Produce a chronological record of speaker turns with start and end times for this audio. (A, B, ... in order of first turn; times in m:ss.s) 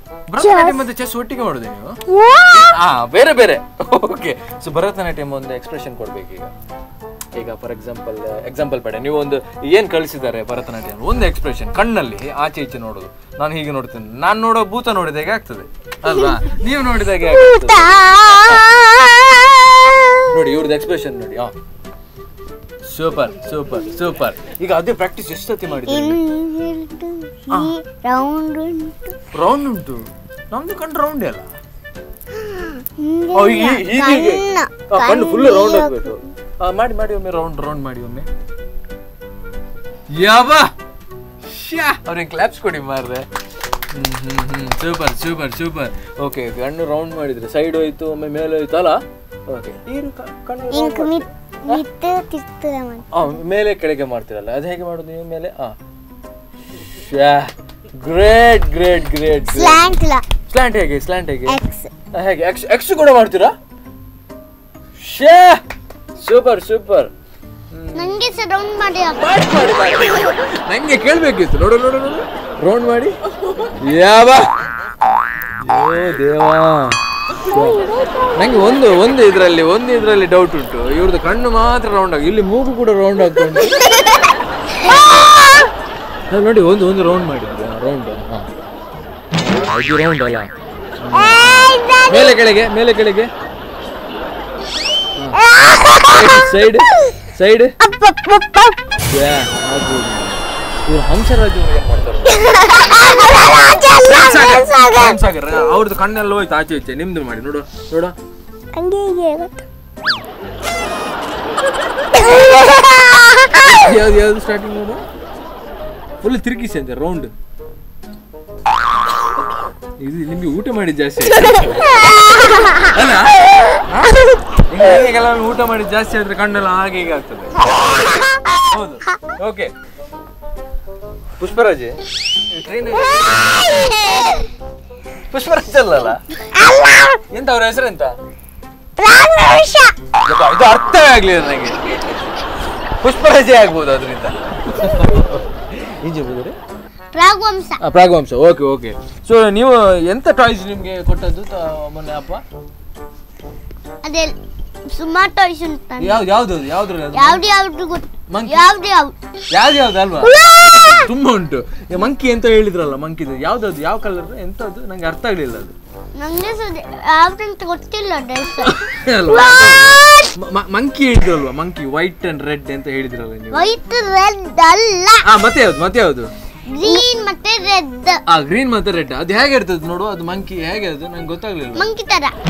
0:00.3-0:02.0 A
0:00.4-0:00.9 B
0:02.1-0:02.7 B
0:02.5-0:06.5 A
0:07.4-0:18.6 A
0:17.2-0:20.4 B
0:20.3-0:21.5 A
0:22.9-0:26.2 A
0:25.9-0:29.2 B
0:29.3-0:31.5 A
0:32.4-0:36.2 B
0:33.3-0:38.3 A
0:40.1-0:40.7 A
0:41.4-0:43.3 A
0:43.9-0:51.8 A
0:50.7-0:53.3 B
0:53.1-0:55.8 A
0:57.0-0:59.9 A
0:59.4-1:00.3 B
1:00.5-1:01.6 A
1:01.5-1:01.9 B
1:02.1-1:03.5 A
1:05.0-1:05.6 A
1:06.2-1:07.1 A
1:07.7-1:08.2 A
1:08.0-1:09.5 C
1:09.2-1:13.2 A
1:13.7-1:14.5 A
1:15.6-1:23.8 A
1:17.5-1:18.9 B
1:24.8-1:25.7 B
1:26.3-1:28.5 A
1:29.4-1:33.3 A
1:31.1-1:32.4 B
1:35.4-1:36.5 B
1:36.1-1:37.7 A
1:37.8-1:38.8 B
1:39.1-1:42.9 A
1:42.3-1:45.2 B
1:44.0-1:48.2 A
1:48.7-1:49.7 B
1:52.1-1:53.7 B
1:53.6-1:55.0 A
1:56.2-1:57.3 A
2:00.0-2:02.0 A
2:02.8-2:09.7 A
2:11.4-2:12.0 A
2:12.5-2:13.7 A
2:13.2-2:14.4 B
2:15.3-2:16.2 A
2:16.5-2:17.2 B
2:17.3-2:18.2 A
2:19.0-2:20.0 B
2:20.3-2:22.1 A
2:23.0-2:26.6 A
2:27.1-2:27.8 C
2:27.8-2:32.4 A
2:34.0-2:34.4 C
2:34.9-2:36.2 C
2:36.0-2:37.4 A
2:37.1-2:39.2 C
2:38.3-2:38.6 A
2:39.5-2:45.8 A
2:46.2-2:48.8 C
2:48.6-2:53.7 A
2:49.4-2:50.3 C
2:53.5-2:55.2 C
2:55.2-2:56.3 A
2:56.7-2:58.2 C
2:58.3-3:01.9 A
3:01.8-3:02.3 C